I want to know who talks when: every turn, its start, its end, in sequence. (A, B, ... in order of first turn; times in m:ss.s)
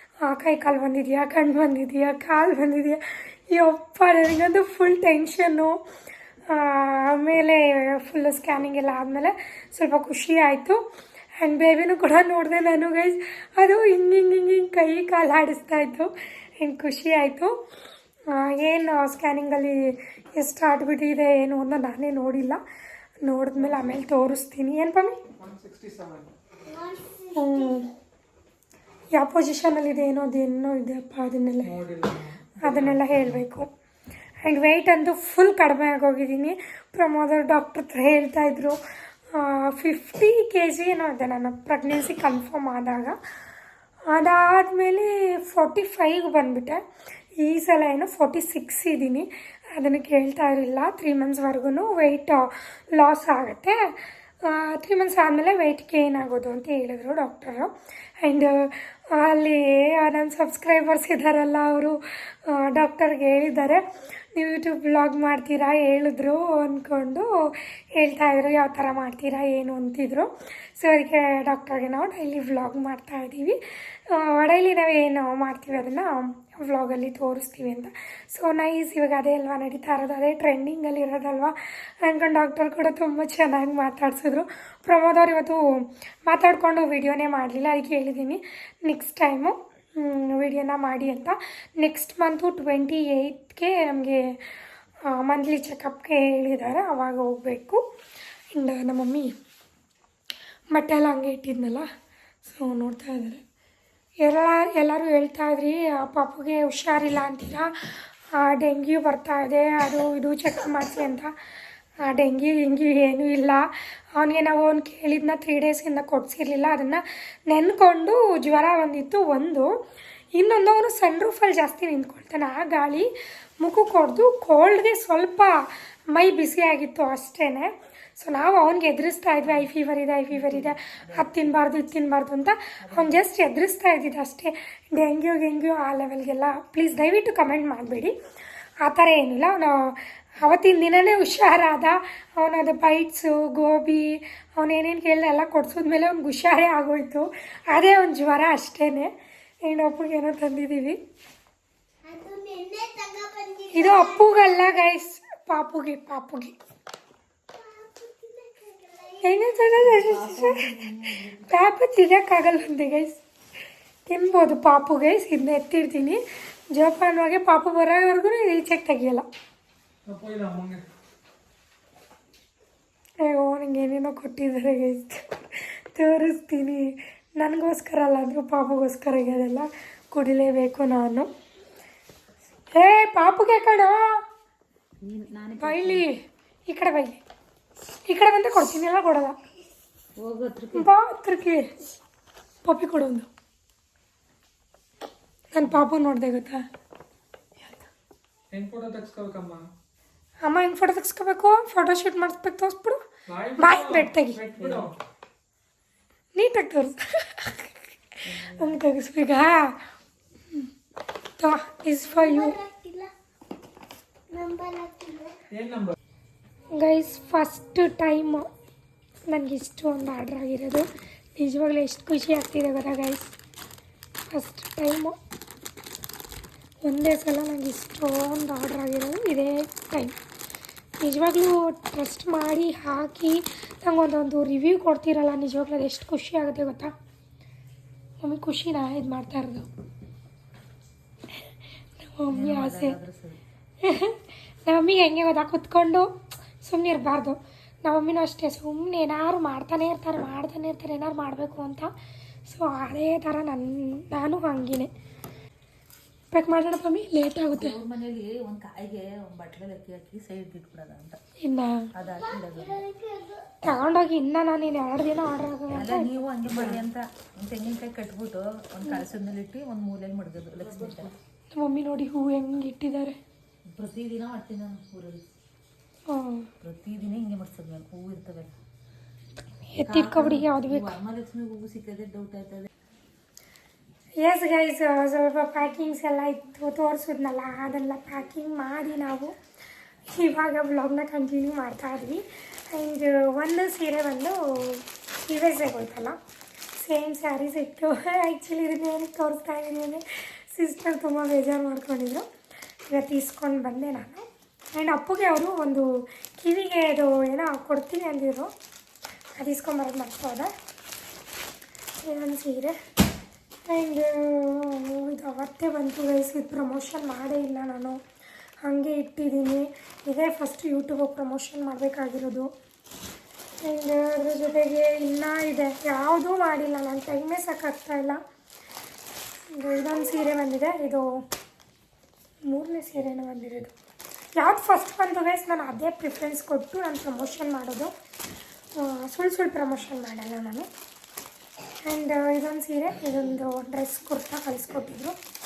0:00.2-0:05.8 A
0:06.5-0:10.8 A
0:11.4-0:17.5 A
0:18.3-0:22.6 A
0:23.2-0:25.2 A
0:25.4-0:26.3 B
0:26.6-0:27.8 C
0:27.3-0:27.9 A
0:29.1-0:31.8 A
0:31.6-0:33.4 B
0:32.6-0:33.7 A
0:34.4-0:38.8 A
0:39.3-0:43.2 A
0:44.1-0:46.8 A
0:47.4-0:53.8 A
0:54.4-1:13.6 A
1:14.1-1:34.4 A
1:35.1-1:37.8 A
1:38.5-1:39.3 A
1:40.7-1:41.8 A
1:42.4-1:43.4 A
1:44.2-1:51.3 A
1:52.0-1:59.8 A
2:00.3-2:18.1 A
2:10.3-2:11.5 D
2:12.8-2:13.2 D
2:18.8-2:31.0 A
2:32.1-2:34.2 C
2:33.7-2:36.6 A
2:37.5-2:39.2 C
2:39.2-2:40.7 A
2:39.8-2:41.5 D
2:41.4-2:43.2 A
2:44.1-2:49.2 A
2:50.0-2:50.8 B
2:53.2-3:01.3 A
3:02.7-3:04.2 A
3:05.0-3:06.1 D
3:05.6-3:07.2 A
3:08.0-3:09.4 A
3:10.2-3:10.9 D
3:10.7-3:11.7 A
3:12.6-3:13.3 A
3:15.5-3:16.6 A
3:18.5-3:19.6 B
3:20.4-3:23.0 A
3:23.3-3:24.9 B
3:23.6-3:24.4 A
3:26.3-3:29.8 A
3:28.3-3:28.8 D
3:31.4-3:32.6 A
3:32.1-3:33.1 C
3:34.3-3:35.4 C
3:35.5-3:36.0 B
3:36.7-3:38.5 A
3:39.3-3:43.3 A
3:44.3-3:45.2 A
3:46.8-3:50.1 A
3:51.0-3:56.9 A
3:58.2-3:59.7 A
4:02.0-4:03.0 A
4:02.3-4:03.4 D
4:03.8-4:11.9 A
4:12.5-4:14.9 A
4:16.3-4:17.8 A
4:17.5-4:21.2 D
4:21.4-4:21.9 A
4:21.9-4:22.8 D
4:22.7-4:23.4 C
4:23.6-4:26.1 A
4:25.7-4:31.1 D
4:31.5-4:33.1 A
4:33.7-4:35.2 D
4:36.1-4:36.5 A
4:36.6-4:38.5 D
4:39.7-4:41.0 A
4:39.8-4:42.7 D
4:44.2-4:49.3 A
4:50.1-4:56.2 A
4:56.8-5:02.2 A
5:02.9-5:08.5 A
5:09.4-5:10.5 A
5:12.0-5:12.8 A
5:13.7-5:18.0 A
5:18.6-5:22.5 A
5:23.6-5:28.2 A
5:29.5-5:31.2 A
5:32.4-5:33.7 A
5:34.4-5:37.9 A
5:38.8-5:40.7 A
5:41.8-5:45.1 A